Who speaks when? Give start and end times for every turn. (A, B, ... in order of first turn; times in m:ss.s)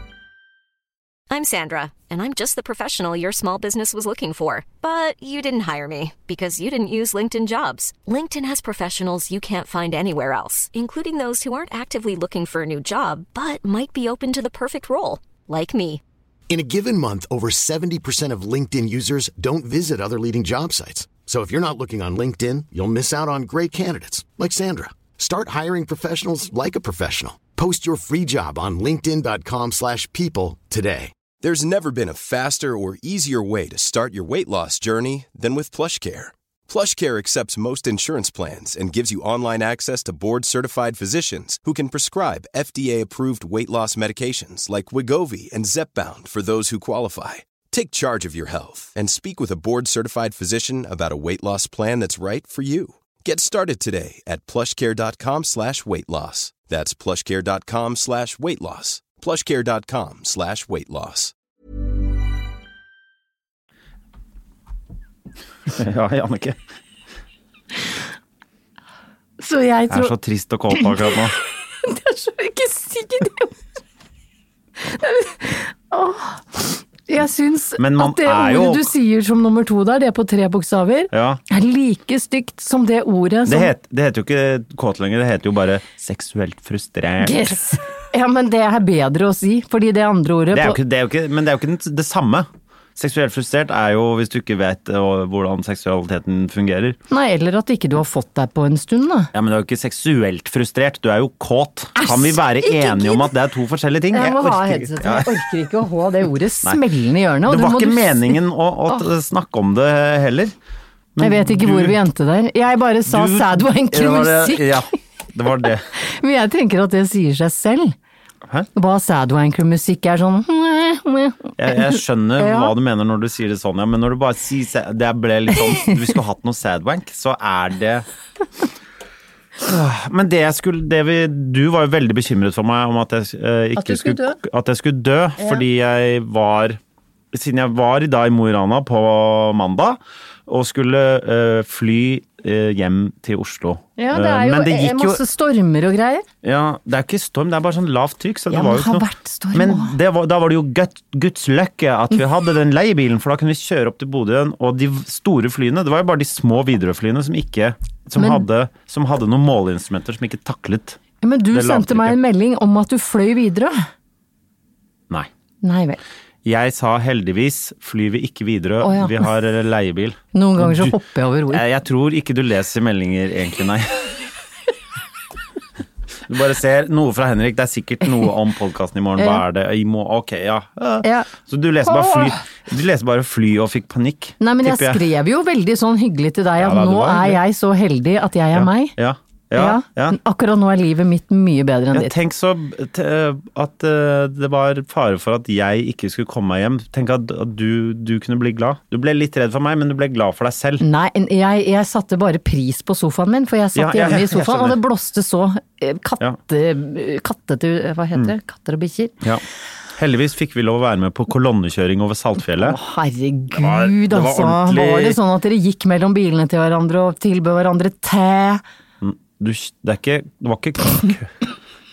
0:01.3-0:16.0 A
0:16.5-0:31.1 B
0:31.4-1:01.3 C
1:05.7-1:06.6 D
1:09.4-1:10.1 E
1:09.9-1:11.4 D
1:10.7-1:11.2 E
1:11.8-1:13.6 E
1:14.8-1:23.7 E
1:17.8-1:18.9 D
1:21.1-1:21.4 D
1:23.5-1:27.6 D
1:27.2-1:30.8 E
1:30.5-1:37.0 D
1:37.1-1:39.3 E
1:39.3-1:45.4 D
1:42.0-1:43.3 E
1:44.1-1:48.4 E
1:47.4-1:50.5 D
1:51.2-1:52.0 D
1:51.2-1:54.9 E
1:53.1-1:55.9 D
1:55.9-1:58.0 E
1:58.8-2:02.7 E
2:01.6-2:08.0 D
2:09.6-2:16.8 D
2:13.8-2:14.4 E
2:17.3-2:25.2 D
2:24.0-2:26.2 E
2:26.4-2:41.0 D
2:28.5-2:30.0 E
2:38.2-2:38.4 E
2:41.2-2:43.9 E
2:41.5-2:42.2 D
2:45.6-2:46.0 E
2:46.4-2:51.0 D
2:48.8-2:49.2 E
2:50.3-2:51.6 E
2:51.5-2:54.2 D
2:56.3-3:05.0 D
3:01.0-3:01.3 E
3:01.8-3:02.4 E
3:04.4-3:09.0 E
3:06.6-3:07.4 D
3:08.5-3:10.2 D
3:09.5-3:12.1 E
3:11.9-3:20.8 D
3:20.8-3:29.2 E
3:23.8-3:24.8 D
3:30.0-3:32.8 D
3:32.6-3:38.6 E
3:33.5-3:35.2 D
3:39.0-3:41.3 D